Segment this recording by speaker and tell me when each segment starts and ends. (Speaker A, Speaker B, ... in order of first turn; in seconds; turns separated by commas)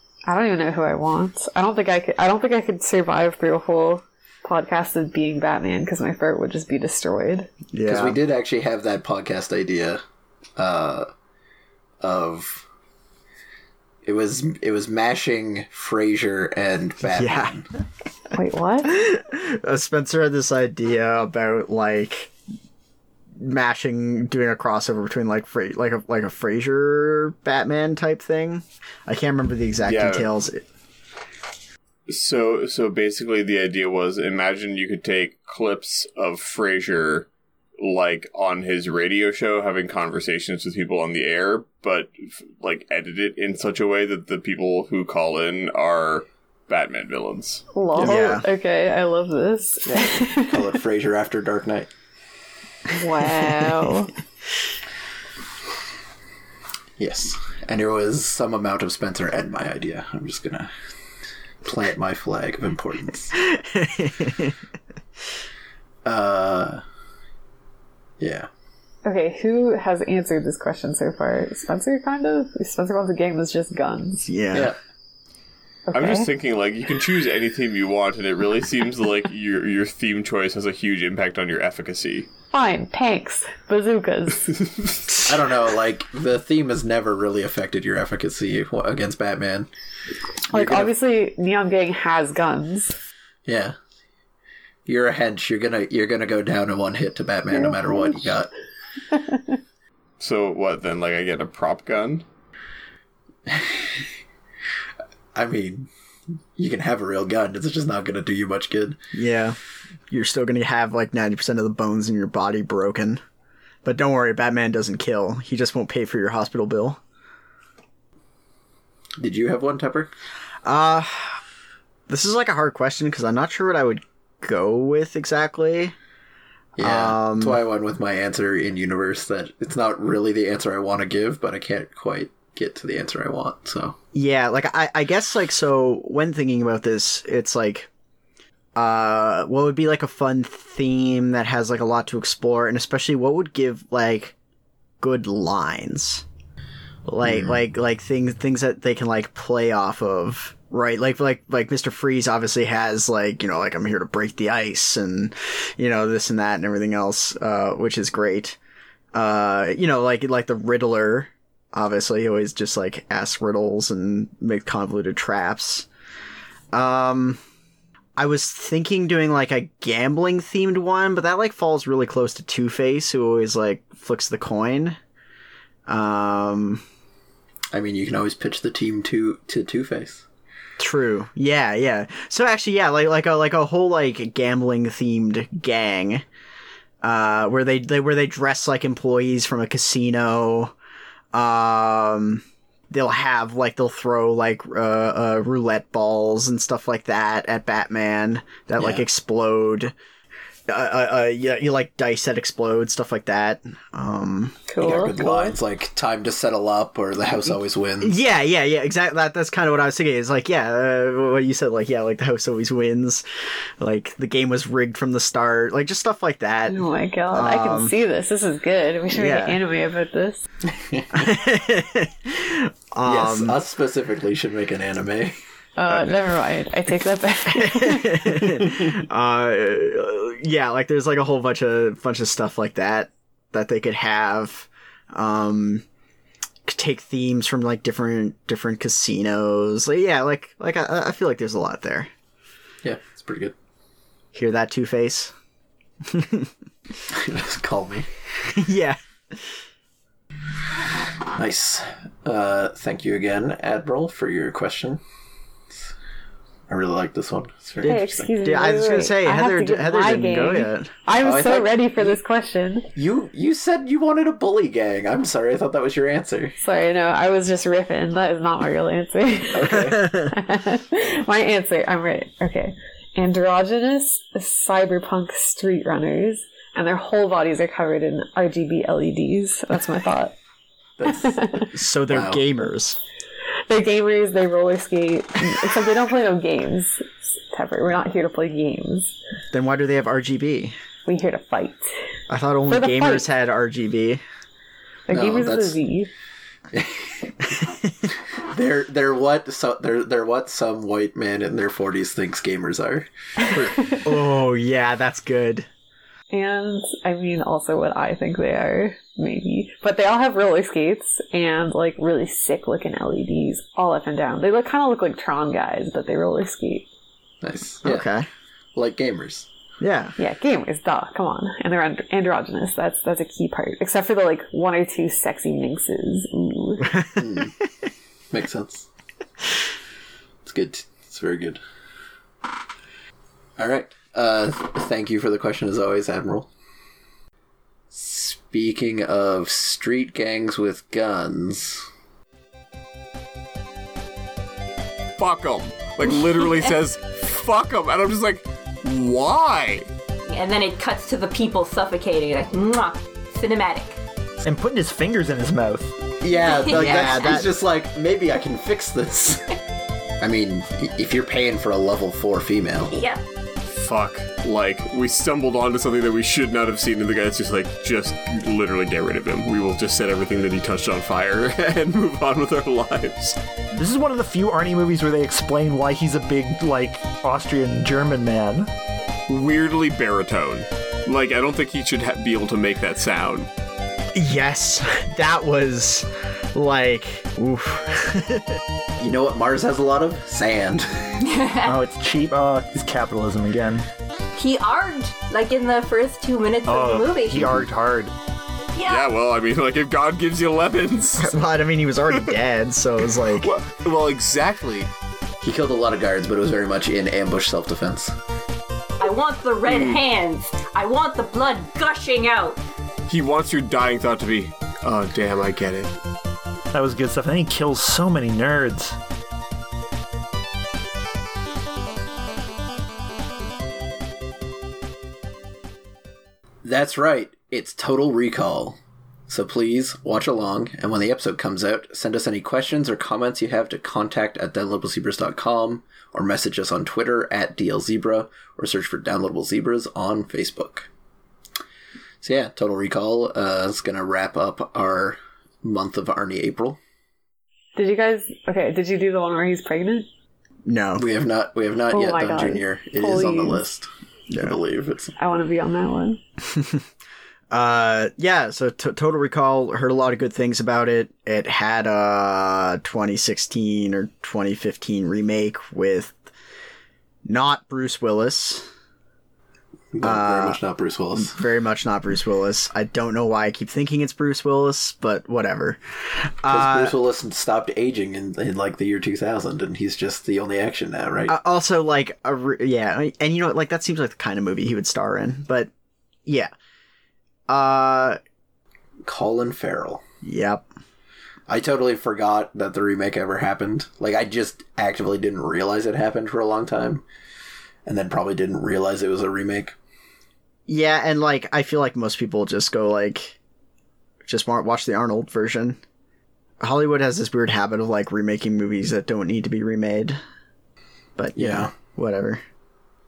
Speaker A: 0.3-7.5, Speaker B: 7.7-8.2, Speaker C: 7.9-10.0, Speaker C: 10.6-11.1, Speaker C: 12.0-12.7, Speaker C: 14.0-17.6, Speaker B: 17.1-17.6, Speaker A: 18.3-18.9, Speaker B: 18.9-22.3, Speaker B: 23.4-30.6, Speaker D: 29.9-30.3, Speaker D: 32.1-47.6, Speaker A: 47.7-50.6, Speaker B: 48.0-48.5, Speaker C: 49.9-51.9, Speaker A: 52.9-54.1, Speaker C: 57.0-60.7, Speaker C: 61.6-63.3, Speaker B: 63.4-64.6, Speaker C: 66.0-66.8, Speaker C: 68.2-68.5, Speaker A: 69.0-74.3, Speaker B: 74.3-74.8, Speaker C: 74.5-74.8, Speaker A: 75.9-76.3, Speaker D: 75.9-82.3, Speaker A: 82.5-84.6, Speaker D: 84.9-85.2, Speaker C: 85.2-89.7, Speaker A: 90.5-93.0, Speaker C: 90.5-90.9, Speaker C: 93.5-93.8, Speaker C: 94.9-98.5, Speaker A: 97.6-98.3, Speaker A: 99.1-99.6, Speaker D: 100.2-102.2, Speaker C: 103.5-104.0, Speaker C: 105.3-105.9, Speaker C: 106.6-109.0, Speaker B: 109.1-109.6, Speaker B: 110.1-113.2, Speaker B: 113.8-117.0, Speaker C: 119.2-120.1, Speaker B: 120.7-121.4, Speaker B: 122.1-126.0, Speaker C: 126.8-134.0, Speaker B: 126.8-127.6, Speaker B: 134.1-137.9, Speaker B: 138.8-144.3, Speaker B: 145.0-146.2, Speaker B: 147.1-158.6, Speaker C: 147.2-147.6, Speaker B: 159.1-165.9, Speaker B: 166.7-167.4, Speaker B: 168.2-175.0, Speaker B: 175.9-176.8, Speaker C: 177.7-180.2, Speaker B: 180.8-186.2, Speaker B: 187.0-190.7, Speaker B: 191.3-199.9, Speaker C: 198.8-199.0, Speaker B: 200.7-204.6, Speaker A: 204.7-205.6, Speaker C: 204.8-208.2, Speaker B: 208.0-216.8, Speaker A: 216.7-220.4, Speaker B: 217.3-217.9, Speaker B: 219.1-219.6, Speaker B: 221.1-223.6, Speaker C: 223.1-225.4, Speaker A: 225.8-228.4, Speaker B: 227.5-235.8, Speaker B: 236.7-242.1, Speaker C: 242.8-243.5, Speaker B: 244.3-245.3, Speaker B: 246.1-246.5, Speaker C: 247.1-248.1, Speaker B: 248.6-249.6, Speaker C: 251.3-255.0, Speaker C: 256.7-258.3, Speaker B: 257.8-260.9, Speaker A: 257.8-262.9, Speaker C: 261.2-262.2, Speaker C: 262.9-266.6, Speaker A: 266.6-280.4, Speaker C: 269.5-270.0, Speaker B: 269.9-270.3, Speaker C: 281.0-281.4, Speaker A: 281.1-281.7, Speaker B: 281.7-283.0, Speaker C: 282.1-282.4, Speaker A: 283.7-289.1, Speaker B: 289.5-290.8, Speaker A: 291.1-291.9, Speaker B: 292.3-294.2, Speaker A: 292.7-293.3, Speaker A: 295.1-296.1, Speaker C: 295.1-295.8, Speaker C: 296.7-297.6, Speaker B: 297.5-298.1, Speaker C: 298.4-303.7, Speaker A: 303.6-304.0, Speaker B: 304.0-305.7, Speaker A: 306.3-316.9, Speaker C: 317.4-318.1, Speaker B: 317.8-318.3, Speaker C: 318.8-319.5, Speaker B: 319.8-320.1, Speaker A: 320.2-327.0, Speaker B: 326.9-327.3, Speaker C: 327.2-327.5, Speaker C: 328.3-328.9, Speaker C: 330.4-331.6, Speaker C: 333.6-336.5, Speaker C: 337.9-341.9, Speaker D: 345.2-349.9, Speaker E: 350.3-354.0, Speaker F: 354.4-355.9, Speaker C: 356.2-359.4, Speaker E: 356.4-357.0, Speaker B: 356.7-357.5, Speaker C: 360.2-362.9, Speaker E: 362.9-363.2, Speaker D: 363.6-373.4, Speaker F: 373.8-378.7, Speaker D: 379.3-383.5, Speaker B: 384.1-388.6, Speaker C: 389.0-391.1, Speaker E: 391.2-391.8, Speaker F: 391.7-393.9, Speaker E: 394.4-397.7, Speaker F: 396.6-398.1, Speaker E: 398.8-399.1, Speaker D: 398.9-401.3, Speaker B: 401.2-403.5, Speaker D: 403.2-404.9, Speaker C: 405.4-408.1, Speaker E: 409.0-412.6, Speaker D: 409.7-410.0, Speaker D: 413.1-415.9, Speaker F: 416.7-419.0, Speaker C: 426.6-440.9, Speaker C: 442.2-446.8, Speaker A: 447.8-450.1, Speaker B: 450.7-451.1, Speaker C: 451.0-455.1, Speaker A: 451.9-453.6, Speaker B: 454.3-454.6, Speaker A: 455.2-456.2, Speaker B: 456.5-456.9, Speaker B: 457.5-466.3, Speaker B: 467.2-468.7, Speaker C: 469.9-471.4, Speaker B: 470.0-470.6, Speaker B: 471.1-477.0, Speaker C: 476.5-481.4, Speaker B: 481.3-485.7, Speaker B: 486.3-486.5, Speaker B: 487.5-488.2, Speaker C: 489.1-490.0, Speaker B: 490.2-490.7, Speaker C: 491.5-497.1, Speaker C: 497.9-499.8, Speaker B: 500.7-503.4, Speaker B: 504.3-505.8, Speaker B: 506.6-510.2, Speaker B: 511.2-512.4, Speaker C: 511.4-511.7